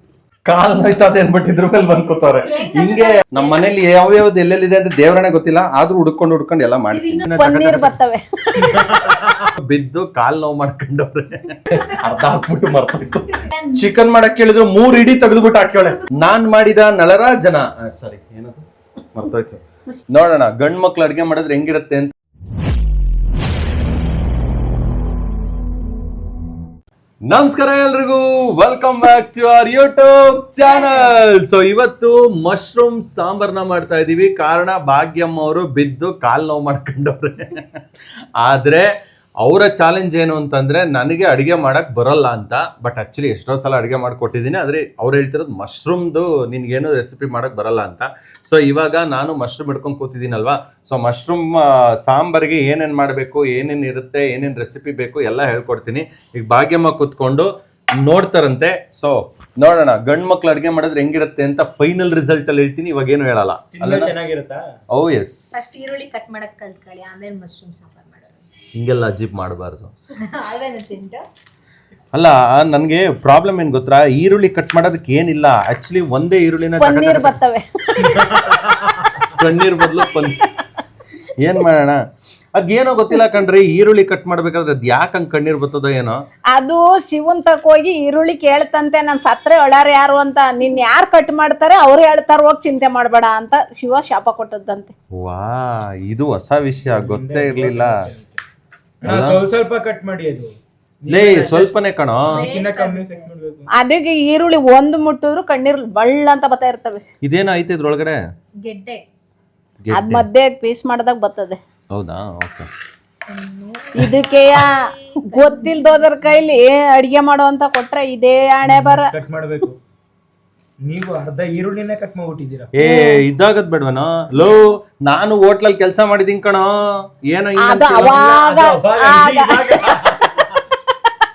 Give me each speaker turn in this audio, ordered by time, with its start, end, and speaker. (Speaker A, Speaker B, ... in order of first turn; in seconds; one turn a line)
Speaker A: 0.5-7.9
Speaker B: 2.5-3.7
Speaker B: 6.9-7.3
Speaker C: 7.4-9.0
Speaker D: 8.7-9.4
Speaker A: 8.8-22.1
Speaker B: 13.4-13.8
Speaker A: 27.3-37.6
Speaker A: 38.4-38.9
Speaker A: 39.4-57.5
Speaker A: 58.0-64.1
Speaker D: 63.7-64.7
Speaker A: 64.9-65.7
Speaker B: 65.5-68.4
Speaker A: 68.8-69.9
Speaker B: 70.3-71.2
Speaker A: 72.1-77.3
Speaker C: 76.8-78.7
Speaker D: 78.3-79.2
Speaker A: 79.2-80.5
Speaker A: 81.4-82.0
Speaker A: 82.5-86.2
Speaker C: 86.5-94.9
Speaker A: 95.2-97.9
Speaker D: 96.8-98.4
Speaker D: 99.0-101.7
Speaker A: 99.1-99.4
Speaker A: 101.1-102.5
Speaker B: 102.3-103.3
Speaker D: 102.3-103.7
Speaker C: 103.8-107.0
Speaker A: 107.2-108.2
Speaker B: 108.7-109.0
Speaker A: 109.8-110.2
Speaker C: 109.9-111.6
Speaker A: 111.9-112.7
Speaker B: 113.3-115.7
Speaker C: 114.0-119.1
Speaker D: 118.7-119.8
Speaker D: 120.8-122.7
Speaker A: 122.8-128.3
Speaker C: 122.8-123.1
Speaker C: 127.6-130.6
Speaker D: 128.0-130.5